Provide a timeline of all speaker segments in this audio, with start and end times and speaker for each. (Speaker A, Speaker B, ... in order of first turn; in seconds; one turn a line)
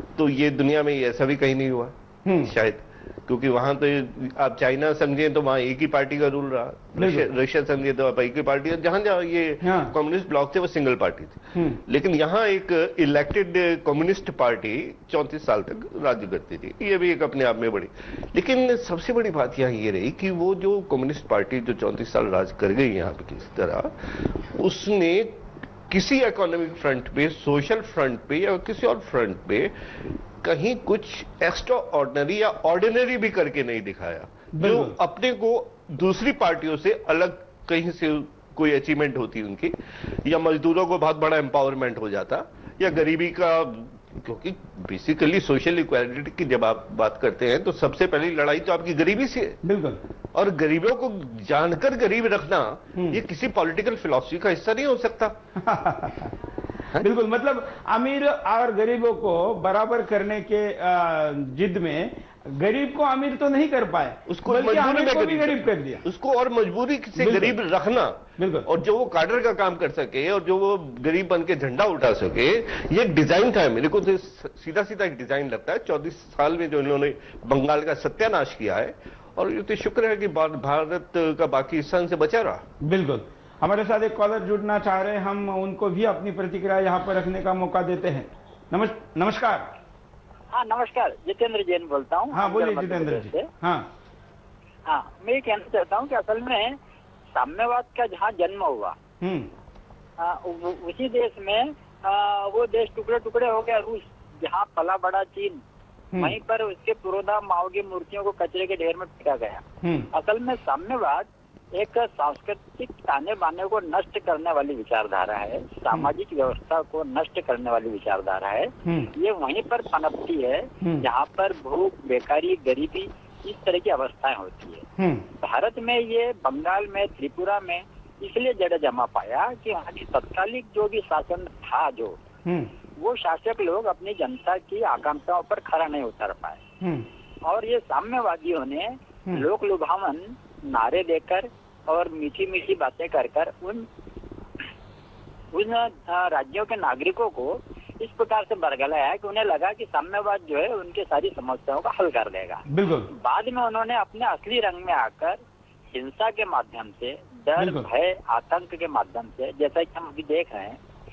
Speaker A: 0.1-29.7
Speaker B: 2.2-2.5
Speaker B: 7.0-7.3
Speaker B: 9.6-9.9
Speaker B: 11.6-11.8
Speaker A: 30.4-49.6
Speaker B: 34.6-34.9
Speaker B: 49.6-50.0
Speaker A: 50.3-55.4
Speaker B: 55.6-56.3
Speaker B: 57.0-66.0
Speaker A: 64.3-82.6
Speaker B: 67.2-67.6
Speaker B: 68.4-68.7
Speaker B: 82.8-89.7
Speaker C: 90.5-93.5
Speaker B: 92.3-93.9
Speaker C: 94.8-96.8
Speaker C: 97.3-99.0
Speaker B: 99.2-99.5
Speaker C: 100.2-105.6
Speaker C: 106.2-109.6
Speaker B: 109.8-110.1
Speaker C: 110.1-124.8
Speaker B: 118.8-119.1
Speaker B: 125.0-125.3
Speaker C: 125.4-132.2
Speaker B: 132.5-132.7
Speaker C: 133.0-136.6
Speaker B: 136.8-137.1
Speaker C: 137.4-143.8
Speaker C: 145.5-155.4
Speaker B: 152.7-153.1
Speaker C: 155.9-160.8
Speaker B: 157.6-157.9